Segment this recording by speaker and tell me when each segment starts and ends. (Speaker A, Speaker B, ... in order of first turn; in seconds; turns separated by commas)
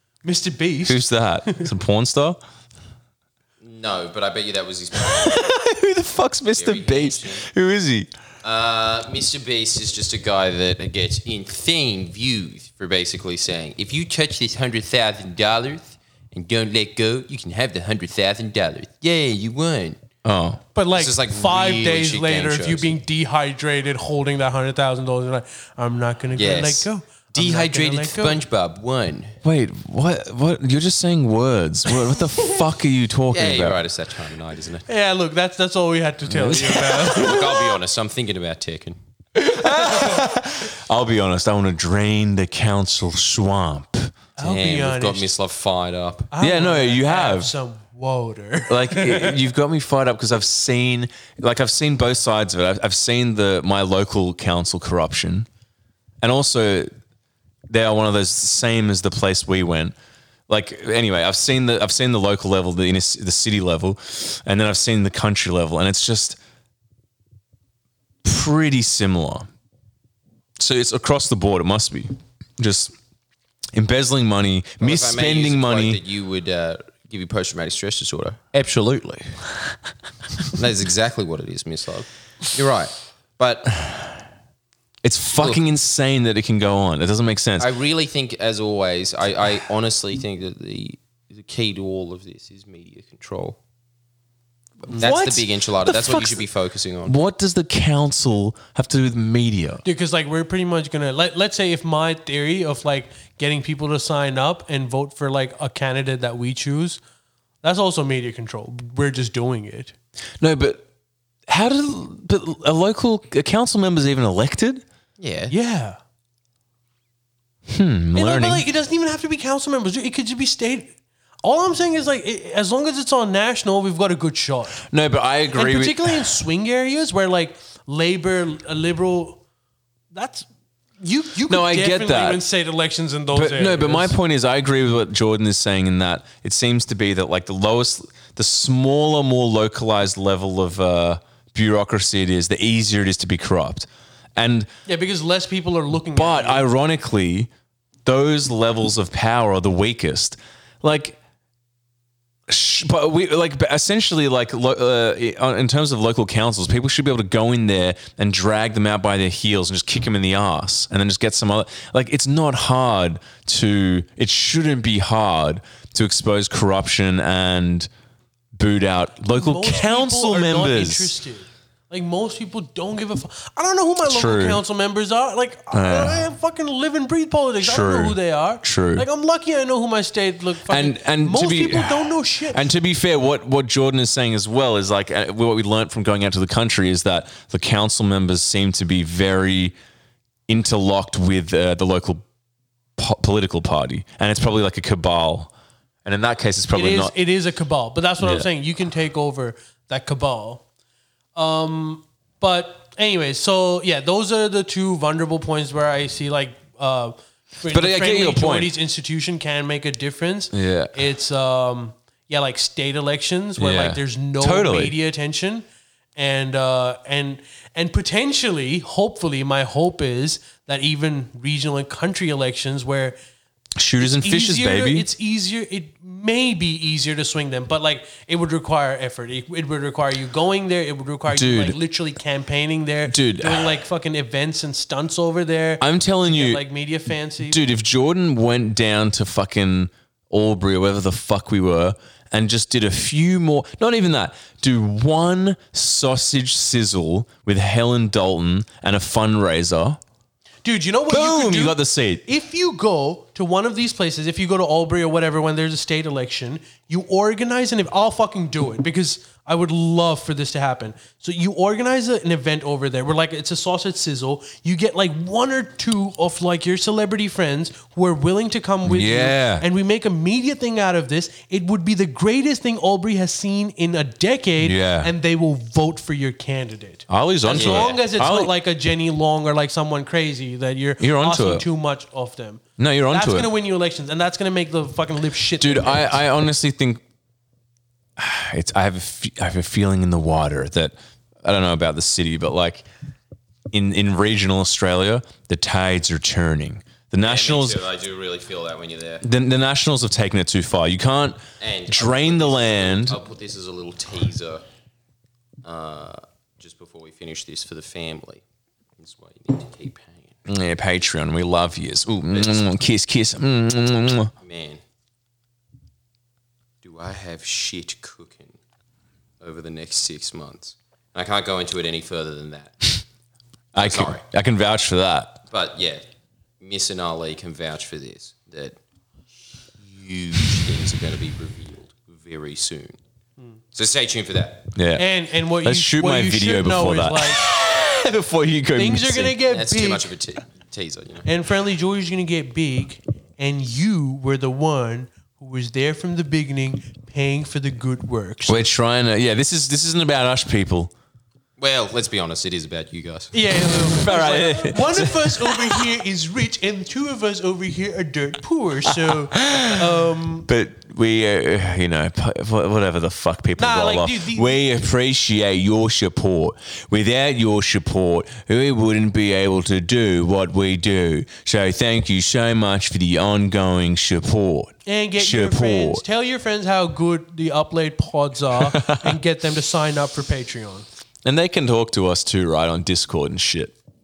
Speaker A: 0.2-1.7, Speaker B: 0.8-2.4, Speaker C: 3.6-5.5, Speaker B: 5.0-8.1, Speaker C: 6.6-7.5, Speaker C: 8.4-20.0, Speaker B: 20.2-20.6, Speaker A: 20.7-28.4, Speaker C: 20.9-22.9, Speaker C: 26.4-29.4, Speaker B: 29.4-33.8, Speaker C: 33.3-34.9, Speaker A: 34.9-37.7, Speaker B: 36.3-37.4, Speaker C: 37.0-39.0, Speaker B: 39.3-44.1, Speaker A: 44.4-45.3, Speaker C: 44.4-46.3, Speaker A: 46.3-49.4, Speaker B: 46.4-47.5, Speaker B: 48.7-55.5, Speaker B: 56.2-56.9, Speaker B: 57.7-59.9, Speaker B: 60.5-66.4, Speaker B: 68.2-69.5, Speaker B: 70.6-72.9, Speaker B: 73.7-76.0, Speaker C: 74.8-78.6, Speaker B: 78.5-79.3, Speaker C: 80.5-83.8, Speaker B: 85.0-87.7, Speaker C: 87.6-93.6, Speaker B: 94.8-96.4, Speaker C: 94.9-97.2, Speaker B: 97.0-99.8, Speaker A: 99.8-107.0, Speaker A: 107.6-109.9, Speaker B: 110.4-110.8, Speaker B: 111.5-114.8, Speaker C: 115.2-115.5, Speaker A: 115.5-116.0, Speaker B: 117.7-118.6, Speaker A: 118.1-124.8, Speaker B: 124.9-126.3, Speaker A: 125.5-129.4, Speaker A: 130.1-130.5, Speaker A: 131.0-134.2, Speaker B: 131.5-132.4, Speaker B: 133.3-144.7, Speaker A: 144.9-146.7, Speaker B: 146.1-147.5, Speaker B: 148.0-151.2, Speaker B: 152.5-167.9, Speaker B: 168.5-171.1, Speaker A: 169.3-182.7, Speaker B: 174.0-174.6, Speaker B: 175.7-176.3, Speaker B: 177.6-179.1, Speaker B: 180.7-189.7, Speaker B: 190.5-192.2, Speaker B: 193.0-195.5, Speaker B: 196.0-197.1, Speaker A: 196.7-200.6, Speaker B: 198.2-198.5, Speaker A: 201.3-215.6, Speaker B: 207.7-208.7, Speaker B: 210.5-211.0, Speaker B: 213.6-214.9, Speaker A: 216.2-223.2, Speaker B: 223.8-225.1, Speaker A: 224.0-237.6, Speaker B: 231.3-231.8, Speaker B: 233.1-233.7, Speaker B: 235.8-236.6, Speaker B: 237.5-250.0, Speaker A: 250.6-286.2, Speaker B: 251.1-252.2, Speaker B: 268.8-269.6, Speaker B: 274.6-275.1, Speaker B: 277.1-278.5, Speaker C: 277.5-278.0, Speaker B: 281.0-281.6, Speaker B: 282.8-283.5, Speaker B: 285.6-287.0, Speaker B: 288.2-292.8, Speaker B: 293.7-297.8, Speaker C: 297.2-299.2, Speaker B: 299.2-303.2, Speaker C: 301.6-304.6, Speaker C: 305.6-308.4, Speaker C: 309.0-310.4, Speaker B: 310.4-314.3, Speaker C: 312.3-312.6, Speaker C: 314.4-314.8, Speaker C: 316.8-318.6, Speaker C: 319.4-323.0, Speaker B: 323.7-325.4, Speaker C: 323.8-324.2, Speaker C: 325.5-326.0, Speaker C: 326.6-328.8, Speaker C: 329.8-333.0, Speaker C: 333.7-334.7, Speaker B: 334.7-335.1, Speaker A: 334.9-337.4, Speaker B: 335.6-339.4, Speaker A: 338.8-340.1, Speaker C: 339.5-341.3, Speaker A: 341.2-348.6, Speaker B: 348.5-350.9, Speaker C: 351.6-353.3, Speaker A: 353.3-360.5, Speaker B: 353.6-355.9, Speaker B: 359.3-359.9, Speaker B: 360.5-376.0, Speaker A: 363.6-364.6, Speaker A: 374.9-380.9, Speaker B: 378.5-379.2, Speaker B: 381.2-383.7